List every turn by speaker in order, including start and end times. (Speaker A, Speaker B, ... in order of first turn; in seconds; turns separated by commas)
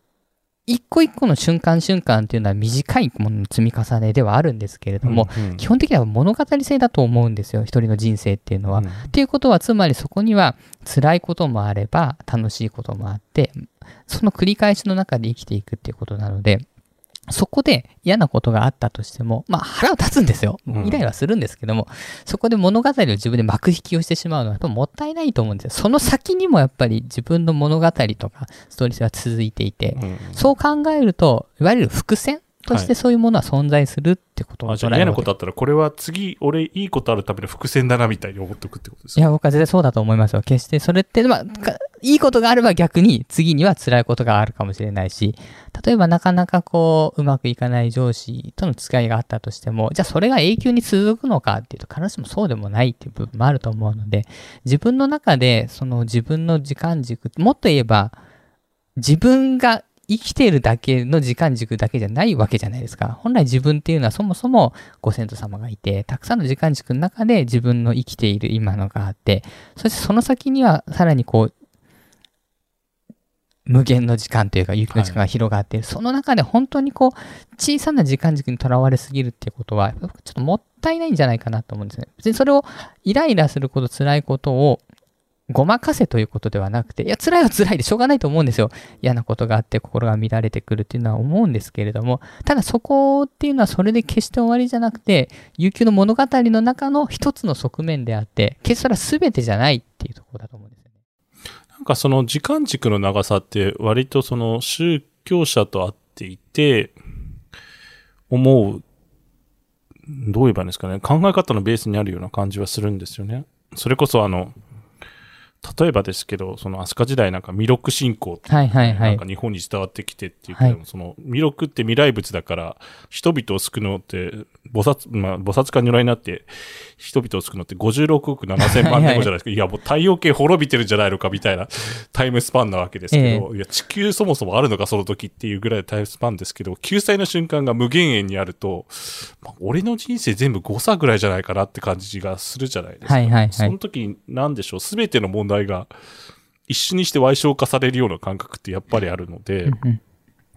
Speaker A: 0.7-16.6, Speaker B: 5.0-5.7, Speaker B: 8.8-9.1, Speaker A: 17.3-35.3, Speaker B: 20.7-21.0, Speaker B: 29.9-30.5, Speaker B: 34.7-39.2, Speaker A: 39.2-58.2, Speaker A: 59.0-71.5, Speaker A: 73.7-84.8, Speaker B: 74.9-75.2, Speaker A: 85.5-100.8, Speaker B: 101.8-107.0, Speaker B: 108.3-108.8, Speaker B: 110.1-114.5, Speaker B: 115.6-145.9, Speaker A: 118.5-119.2, Speaker A: 128.6-129.3, Speaker A: 133.1-133.5, Speaker A: 143.1-143.7, Speaker B: 146.7-149.8, Speaker A: 149.7-150.0